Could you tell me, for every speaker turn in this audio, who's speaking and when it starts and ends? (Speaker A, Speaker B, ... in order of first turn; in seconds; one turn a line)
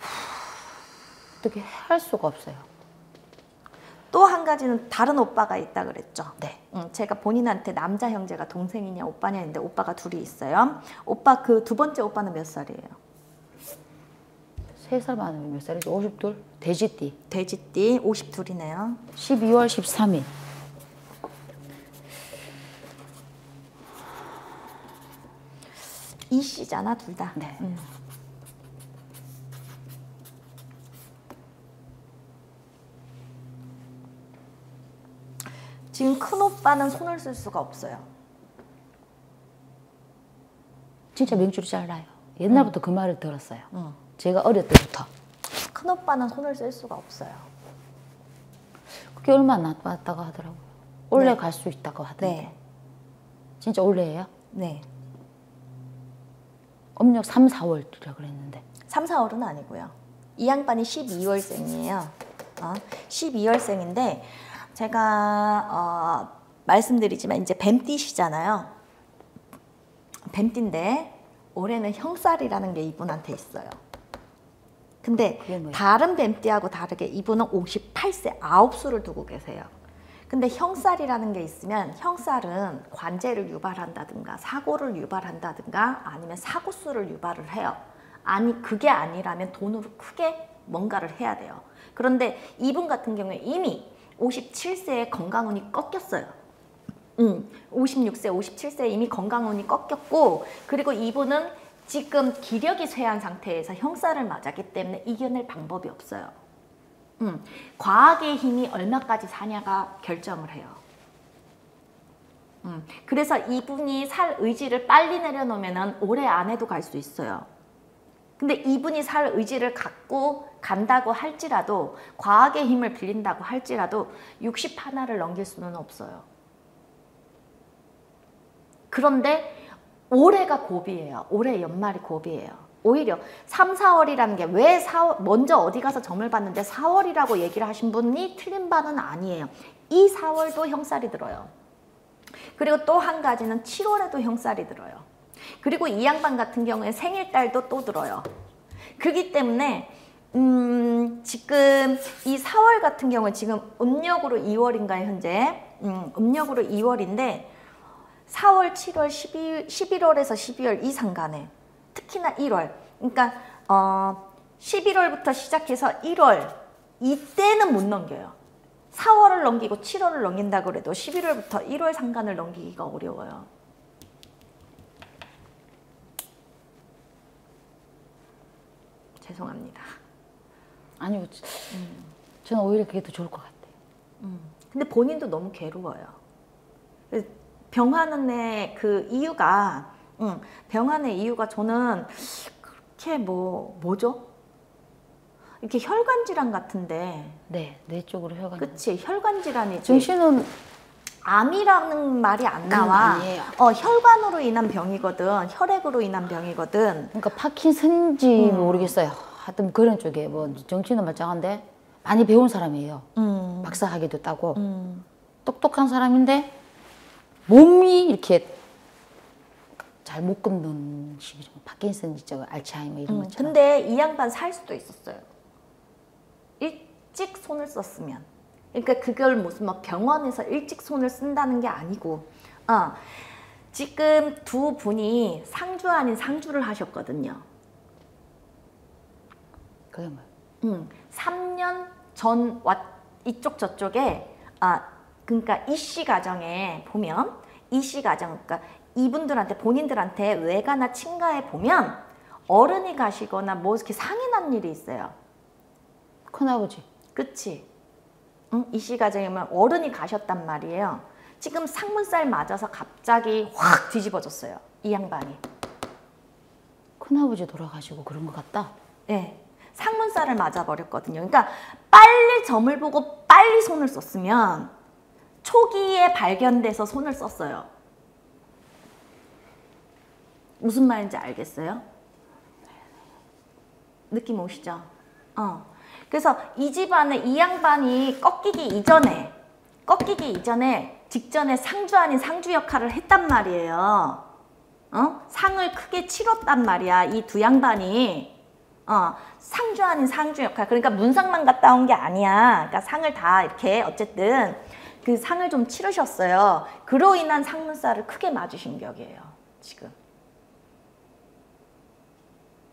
Speaker A: 1.4-2.7
Speaker B: 4.1-12.9
Speaker A: 14.8-17.1
Speaker B: 17.3-19.0
Speaker A: 19.1-20.3
Speaker B: 26.3-27.9
Speaker B: 35.9-38.1
Speaker A: 41.1-45.1
Speaker B: 43.7-44.0
Speaker B: 45.7-47.5
Speaker A: 49.1-52.5
Speaker B: 51.1-51.4
Speaker B: 52.2-52.5
Speaker A: 53.6-54.3
Speaker B: 54.5-54.9
Speaker A: 57.0-58.6
Speaker B: 58.9-68.7
Speaker B: 70.3-73.7
Speaker B: 75.0-79.7
Speaker A: 75.2-75.8
Speaker B: 80.3-96.3
Speaker B: 97.2-106.3
Speaker B: 107.2-110.8
Speaker B: 112.6-117.5
Speaker B: 118.4-126.2
Speaker B: 128.9-141.5
Speaker B: 142.4-145.1
Speaker B: 145.6-148.3
Speaker B: 149.0-157.5
Speaker B: 158.3-168.3
Speaker B: 168.9-173.5
Speaker B: 179.2-179.9
Speaker A: 181.0-181.9
Speaker B: 181.7-182.1
Speaker A: 182.4-183.7
Speaker B: 184.2-186.2
Speaker B: 187.1-194.3
Speaker B: 195.6-197.4
Speaker A: 197.5-198.8
Speaker B: 198.6-200.1
Speaker A: 199.8-200.5
Speaker B: 201.2-207.1
Speaker A: 202.7-203.5
Speaker A: 207.1-213.1
Speaker B: 208.3-208.9
Speaker B: 213.2-213.8
Speaker A: 213.6-214.6
Speaker B: 214.6-215.0
Speaker A: 215.4-216.5
Speaker A: 217.5-218.6
Speaker A: 220.0-223.5
Speaker B: 223.1-225.2
Speaker B: 226.6-237.4
Speaker A: 239.9-240.2
Speaker B: 240.6-255.1
Speaker A: 256.3-256.8
Speaker B: 257.1-257.6
Speaker B: 258.5-265.4
Speaker A: 267.0-268.7
Speaker B: 269.1-274.7
Speaker B: 275.4-277.7
Speaker B: 280.6-281.8
Speaker B: 284.1-289.3
Speaker B: 289.9-294.2
Speaker B: 294.9-298.3
Speaker B: 298.9-309.9